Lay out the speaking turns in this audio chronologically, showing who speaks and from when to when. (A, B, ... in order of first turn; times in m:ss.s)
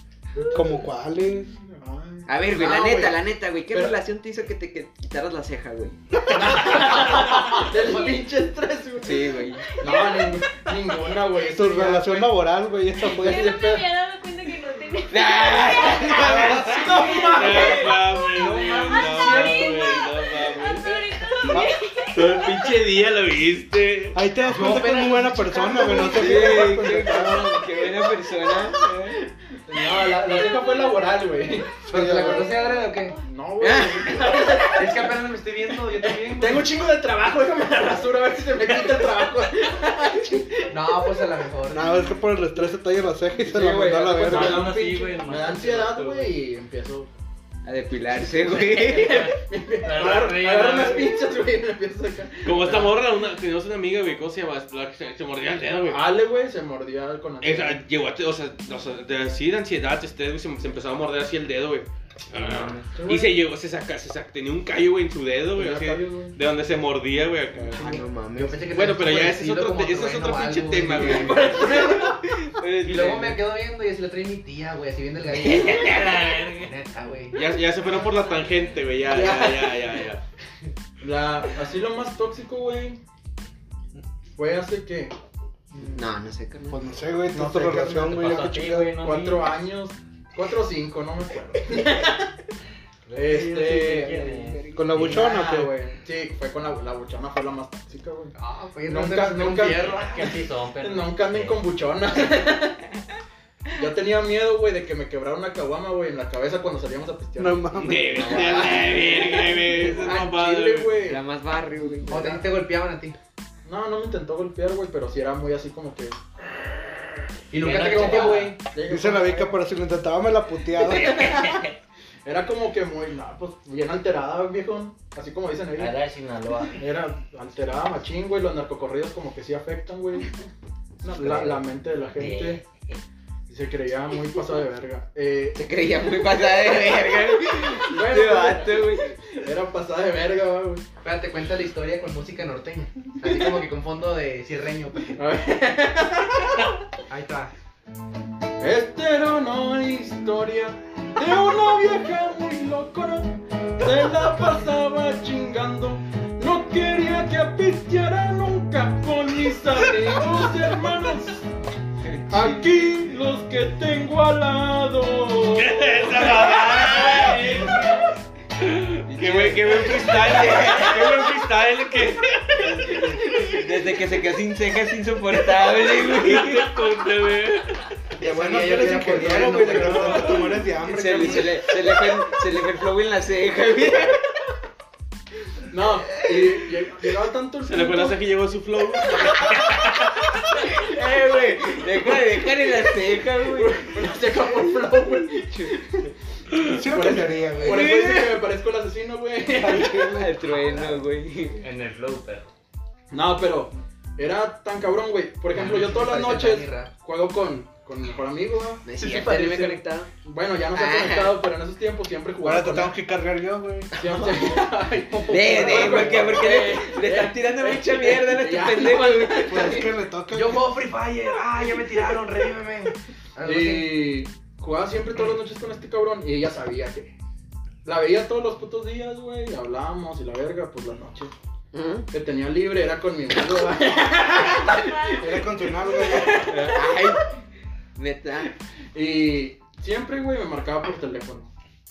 0:00.3-0:00.9 A
0:00.5-0:01.5 B
0:01.5-0:04.0 A
0:02.3-0:06.7 C
0:06.3-0:12.5 A
0:09.0-0:09.8 C
0:09.7-0:10.4 D
0:11.5-0:13.6 B
0:13.0-0:13.9 A
0:13.0-0:17.8 D
0:15.1-0:17.1 C
0:16.0-0:18.2 A
0:16.2-0:16.6 B
0:17.2-0:21.0 E
0:18.4-0:19.7 F
0:18.4-0:22.7 D
0:22.1-0:24.2 E
0:24.1-0:27.7 B
0:24.4-0:26.2 F
0:26.1-0:29.3 C
0:29.7-0:32.4 A
0:31.9-0:33.2 F
0:31.9-0:32.5 B
0:33.2-0:35.2 A
0:33.6-0:34.6 C
0:34.7-0:36.7 F
0:36.0-0:41.2 A
0:40.7-0:41.9 F
0:41.7-0:44.7 B
0:43.6-0:47.1 A
0:44.1-0:46.4 G
0:47.6-0:49.3 C
0:48.7-0:51.2 G
0:49.0-0:52.9 A
0:52.4-0:56.1 E
0:55.9-0:57.8 A
0:57.4-1:07.9 E
1:02.4-1:02.8 G
1:03.0-1:03.4 A
1:05.6-1:06.4 A
1:07.8-1:08.7 C
1:08.3-1:12.0 F
1:08.7-1:11.8 E
1:11.0-1:13.4 C
1:12.8-1:17.4 F
1:15.4-1:16.7 G
1:17.3-1:20.2 E
1:19.1-1:19.7 A
1:21.0-1:23.0 A
1:24.4-1:25.1 A
1:25.7-1:26.1 A
1:25.9-1:26.8 C
1:26.7-1:29.0 B
1:27.3-1:32.3 A
1:28.1-1:29.4 G
1:33.1-1:35.2 G
1:33.2-1:34.3 A
1:34.0-1:35.0 C
1:34.8-1:35.7 B
1:34.9-1:40.0 A
1:38.4-1:40.3 F
1:39.9-1:41.6 G
1:40.8-1:42.8 A
1:43.8-1:47.7 A
1:47.4-1:48.3 B
1:47.8-1:51.0 E
1:48.1-1:49.6 C
1:48.9-1:51.2 A
1:51.0-1:52.4 C
1:52.1-1:52.4 A
1:52.1-1:53.2 F
1:53.6-1:56.2 A
1:57.5-1:58.6 F
1:57.6-1:58.5 G
1:57.7-1:59.6 A
1:58.9-2:01.3 B
2:01.0-2:01.7 G
2:01.2-2:01.4 A
2:02.2-2:06.0 A
2:05.8-2:06.8 G
2:06.7-2:10.3 A
2:11.0-2:12.6 A
2:11.1-2:11.6 G
2:12.2-2:13.0 G
2:13.5-2:15.6 A
2:15.6-2:19.2 C
2:17.8-2:20.8 A
2:21.0-2:25.2 F
2:23.3-2:23.5 A
2:25.2-2:26.7 A
2:27.1-2:27.5 F
2:28.6-2:41.5 A
2:42.3-2:47.7 A
2:42.3-2:42.6 C
2:45.6-2:47.8 E
2:48.6-2:52.9 E
2:49.1-2:51.3 C
2:52.6-2:56.8 C
2:56.0-2:57.8 E
2:58.2-3:00.3 F
2:58.2-3:01.6 B
3:00.8-3:01.6 A
3:00.9-3:04.2 C
3:05.7-3:08.2 A
3:07.6-3:09.4 E
3:10.6-3:14.6 C
3:13.4-3:16.1 A
3:15.4-3:15.7 C
3:16.8-3:18.0 B
3:16.8-3:20.2 A
3:17.6-3:18.4 C
3:19.5-3:20.4 B
3:20.1-3:21.6 C
3:21.6-3:22.5 G
3:23.1-3:29.5 A
3:25.5-3:26.9 F
3:28.8-3:30.1 C
3:29.1-3:29.8 F
3:30.2-3:33.0 A
3:30.7-3:31.4 C
3:32.4-3:33.9 B
3:33.9-3:39.8 A
3:34.0-3:34.7 C
3:35.2-3:36.3 F
3:35.3-3:39.9 C
3:39.4-3:40.7 B
3:40.3-3:44.0 F
3:43.4-3:47.1 A
3:47.8-3:51.3 A
3:51.7-3:52.1 C
3:52.1-3:54.8 A
3:54.7-3:55.9 D
3:55.2-3:56.5 B
3:56.1-3:57.3 C
3:56.3-3:56.9 A
3:58.0-3:58.5 C
3:58.9-4:01.5 A